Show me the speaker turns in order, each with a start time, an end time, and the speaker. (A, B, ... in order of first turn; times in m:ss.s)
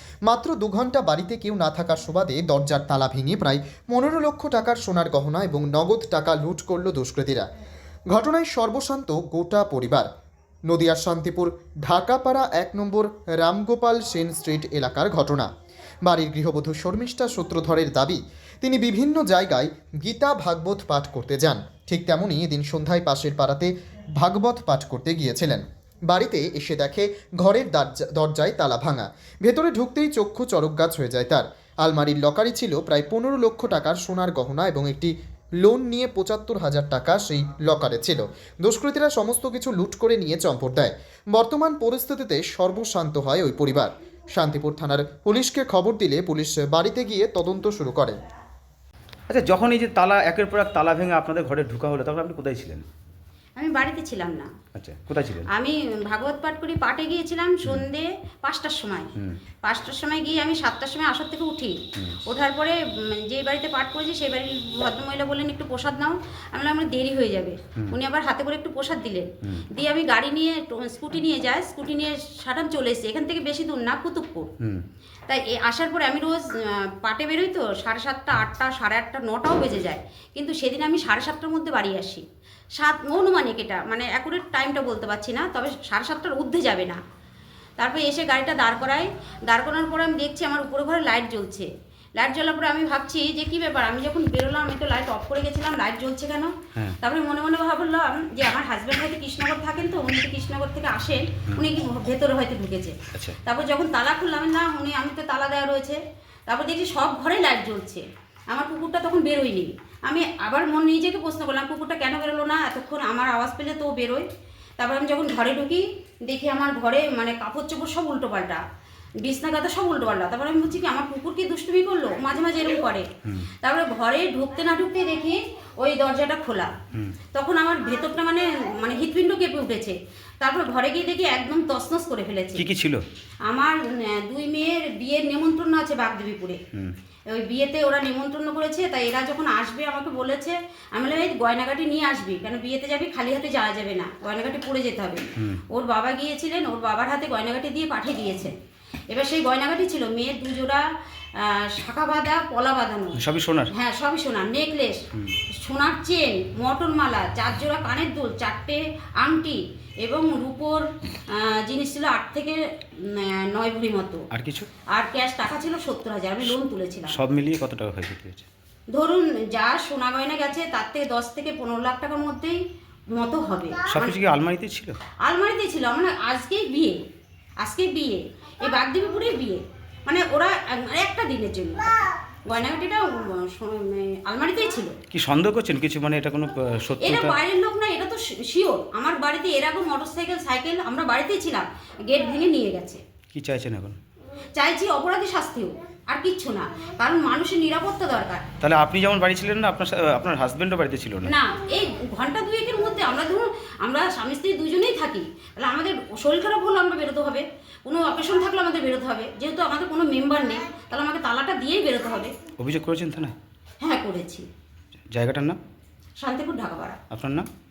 0:00.3-0:07.5 A
0:08.1-0:10.1 A
0:10.7-0:15.5 A
0:16.0-0:48.2 A
0:49.3-0:52.9 B
0:53.6-0:54.5 C
0:54.8-0:55.5 B
0:55.5-0:59.1 C
0:59.6-1:14.5 C
1:15.3-1:22.2 C
1:22.8-1:27.0 C
1:27.8-1:54.2 C
1:43.1-1:43.4 B
1:54.8-1:58.6 C
1:59.2-2:03.1 C
2:03.6-2:06.7 C
2:07.3-2:12.7 C
2:12.6-2:13.0 B
2:13.5-2:16.6 C
2:17.3-2:28.5 C
2:29.1-2:33.2 C
2:33.2-2:33.7 B
2:33.7-2:35.0 C
2:35.6-2:44.3 C
2:44.3-2:44.7 B
2:44.9-2:47.2 C
2:47.1-2:48.5 B
2:48.9-2:52.6 C
2:53.2-2:54.2 C
2:53.9-2:55.0 B
2:55.2-2:57.0 C
2:57.6-3:05.0 C
3:05.1-3:07.4 B
3:07.0-3:13.0 C
3:13.3-3:14.0 B
3:14.6-3:18.4 C
3:18.6-3:21.3 B
3:21.2-3:32.3 C
3:32.6-3:33.4 B
3:33.8-3:34.5 C
3:35.1-3:35.6 B
3:36.2-3:37.0 C
3:37.1-3:37.5 B